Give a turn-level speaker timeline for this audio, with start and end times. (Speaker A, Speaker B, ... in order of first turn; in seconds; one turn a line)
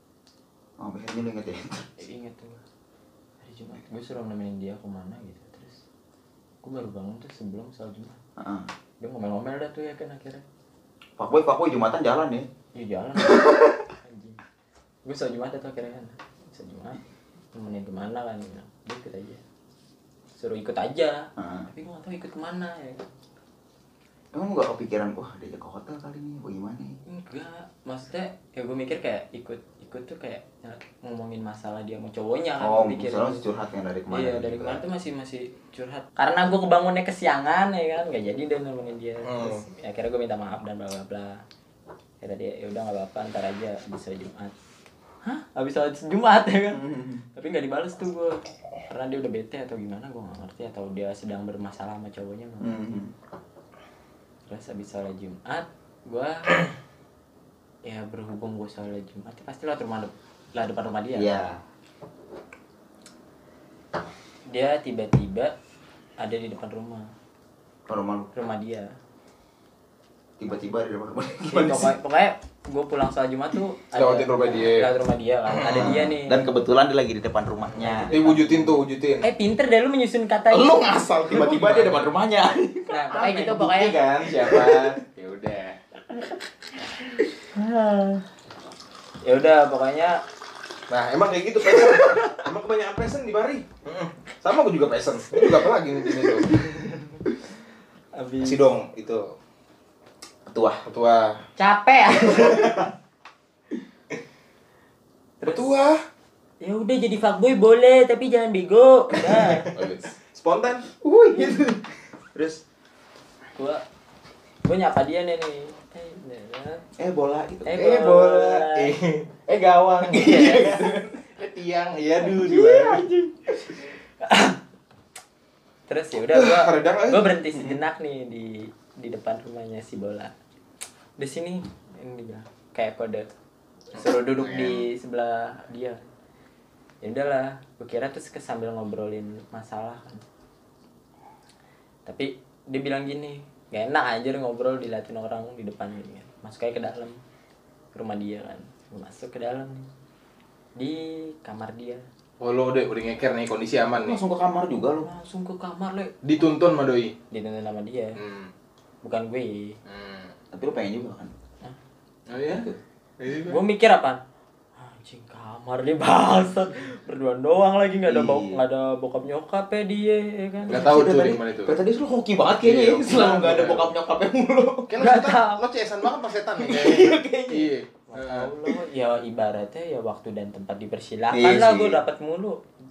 Speaker A: 0.8-1.9
Speaker B: 2.0-2.6
Speaker B: 3.4-5.8
Speaker B: 6.6-8.2
Speaker A: 8.4-8.7
Speaker B: 9.0-10.4
Speaker A: 11.2-12.5
Speaker B: 12.7-14.4
Speaker B: 15.1-17.0
Speaker B: 17.5-19.4
Speaker B: 20.4-23.1
Speaker A: 21.4-21.7
Speaker A: 24.3-27.0
Speaker B: 27.1-33.4
Speaker A: 32.6-34.8
Speaker B: 34.1-41.4
Speaker C: 39.2-39.6
Speaker B: 42.2-44.5
Speaker B: 45.2-52.8
Speaker A: 46.7-47.2
Speaker A: 52.6-53.1
Speaker B: 54.5-56.5
Speaker B: 57.8-61.5
Speaker A: 61.1-61.6
Speaker B: 64.5-65.5
Speaker B: 66.2-67.1
Speaker A: 67.9-68.3
Speaker B: 68.3-68.9
Speaker A: 70.4-71.9
Speaker B: 71.5-76.5
Speaker C: 73.9-74.9
Speaker C: 75.5-76.0
Speaker A: 75.7-78.8
Speaker B: 77.8-78.5
Speaker C: 77.9-79.3
Speaker B: 79.2-80.9
Speaker A: 80.5-85.0
Speaker C: 81.3-82.1
Speaker B: 82.9-84.0
Speaker C: 83.3-85.8
Speaker B: 87.0-88.2
Speaker B: 89.2-90.2
Speaker C: 90.9-96.6
Speaker A: 91.7-92.3
Speaker B: 96.5-97.2
Speaker B: 98.2-98.7
Speaker C: 98.4-99.3
Speaker A: 100.5-100.8
Speaker C: 100.9-101.4
Speaker B: 101.6-102.8
Speaker A: 102.3-102.9
Speaker B: 105.4-105.8
Speaker C: 105.4-106.0
Speaker B: 106.6-109.7
Speaker A: 109.5-109.9
Speaker C: 109.5-110.9
Speaker A: 111.0-112.6
Speaker B: 113.6-113.8
Speaker B: 114.6-116.8
Speaker A: 117.0-117.9
Speaker B: 117.7-118.9
Speaker C: 117.7-123.1
Speaker A: 120.1-121.2
Speaker B: 122.2-124.6
Speaker B: 125.9-130.3
Speaker C: 126.3-127.4
Speaker B: 131.2-133.3
Speaker B: 133.9-136.0
Speaker C: 134.0-134.8
Speaker B: 137.0-140.2
Speaker B: 142.1-147.2
Speaker B: 147.9-149.9
Speaker B: 150.8-152.0
Speaker C: 152.4-154.2
Speaker A: 154.0-155.1
Speaker B: 155.0-156.2
Speaker C: 156.2-157.2
Speaker B: 157.3-158.2
Speaker C: 158.2-158.5
Speaker B: 159.0-159.8
Speaker C: 159.9-160.3
Speaker A: 160.5-161.3
Speaker C: 162.3-163.6
Speaker A: 162.5-162.8
Speaker B: 163.5-164.2
Speaker B: 164.8-171.0
Speaker A: 168.1-168.6
Speaker A: 170.7-174.9
Speaker C: 170.7-171.8
Speaker C: 172.6-173.9
Speaker C: 174.9-178.5
Speaker B: 175.0-175.6
Speaker A: 176.6-177.7
Speaker B: 178.1-182.6
Speaker A: 181.3-182.0